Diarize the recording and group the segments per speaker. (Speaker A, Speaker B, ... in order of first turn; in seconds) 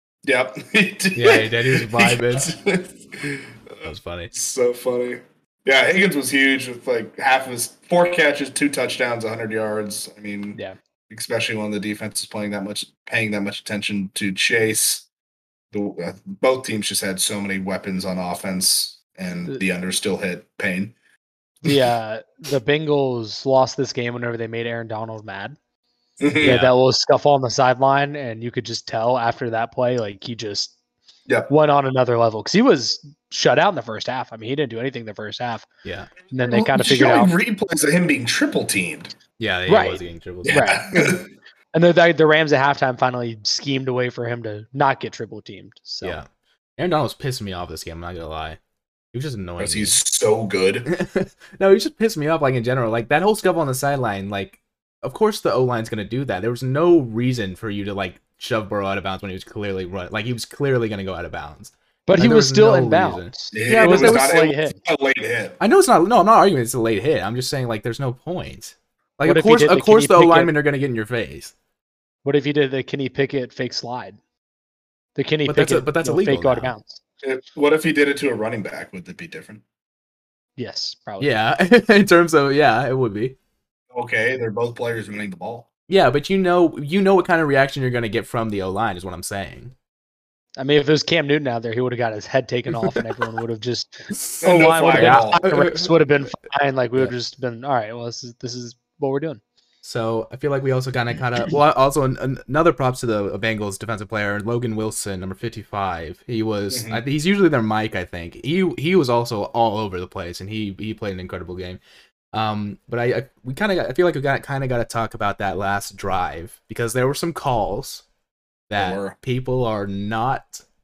Speaker A: 0.2-3.5, 4.3-10.6, 11.1-15.1, 15.7-20.9, 26.2-26.6, 36.5-39.1, 40.5-41.3, 49.6-50.9, 63.5-65.6, 77.2-79.6, 83.9-85.7, 94.4-95.5, 106.7-107.0, 118.8-119.2
Speaker B: 1.2-2.5, 3.8-4.3, 26.4-26.7, 35.9-36.1, 39.4-40.7, 46.8-48.6, 49.1-50.0, 50.9-64.3, 65.6-71.5, 75.5-76.7, 81.2-83.4, 85.9-89.7, 92.7-93.0, 95.0-95.9, 99.8-111.8, 112.3-118.0, 118.7-120.6
Speaker C: 21.6-25.6, 26.4-30.7, 31.5-35.7, 36.3-37.3, 39.7-41.2, 41.7-46.2, 62.1-64.8, 69.3-70.5, 72.2-74.2, 75.2-77.0, 80.6-81.3, 90.6-99.4